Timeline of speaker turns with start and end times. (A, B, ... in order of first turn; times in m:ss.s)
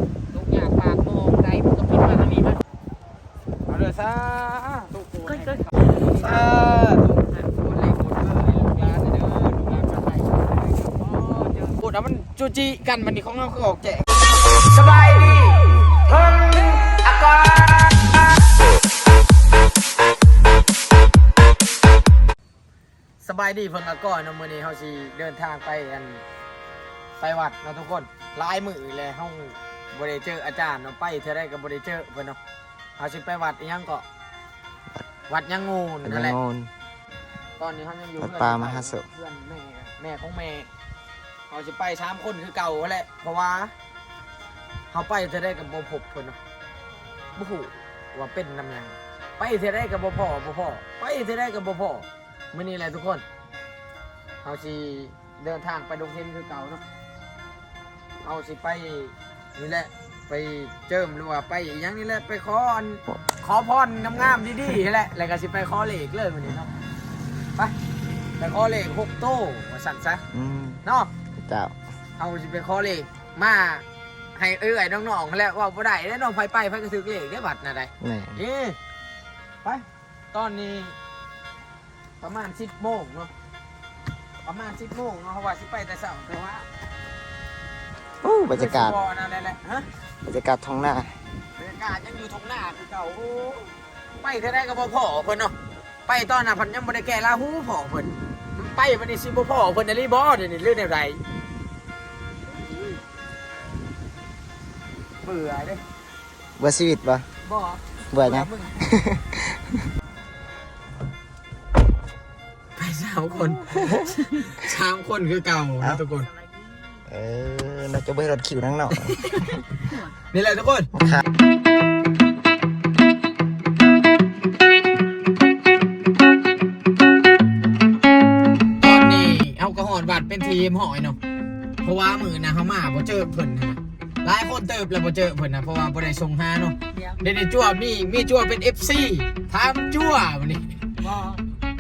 0:00.3-0:02.6 A
0:03.7-0:18.4 A
0:05.2-0:06.5 B
0:23.2-0:26.2 A
0:27.2-0:32.4 A
0:33.0-0:34.0 A
0:35.3-0:36.4 A
0:36.0-0:36.7 C
0:37.6-0:40.7 A
0:38.2-0:39.1 C
0:41.5-0:43.7 A
0:44.9-0:46.4 A
0:47.4-0:53.2 A
0:54.4-0:56.8 A
0:58.2-1:06.7 A
1:04.1-1:04.6 C
1:08.4-1:10.2 A
1:10.3-1:10.8 C
1:10.8-1:11.1 A
1:11.4-1:11.7 C
1:12.2-1:13.8 A
1:14.4-1:18.8 A
1:18.0-1:18.4 C
1:19.6-1:21.0 A
1:22.2-1:23.3 A
1:24.4-1:26.7 A
1:28.2-1:29.0 C
1:28.5-1:29.9 A
1:30.2-1:31.2 C
1:31.6-1:35.5 A
1:36.1-1:41.2 A
1:45.2-1:45.8 A
1:46.6-1:47.3 C
1:47.4-1:48.9 A
1:48.1-1:49.8 C
1:52.8-1:56.3 A
1:53.8-1:54.0 C
1:56.2-1:57.0 B
1:57.1-1:59.4 C
1:59.1-1:59.6 A
1:59.8-2:00.1 B
2:00.3-2:00.9 A
2:00.9-2:01.2 C
2:08.8-2:11.2 A
2:11.8-2:20.8 A
2:16.9-2:17.2 B
2:21.0-2:21.4 B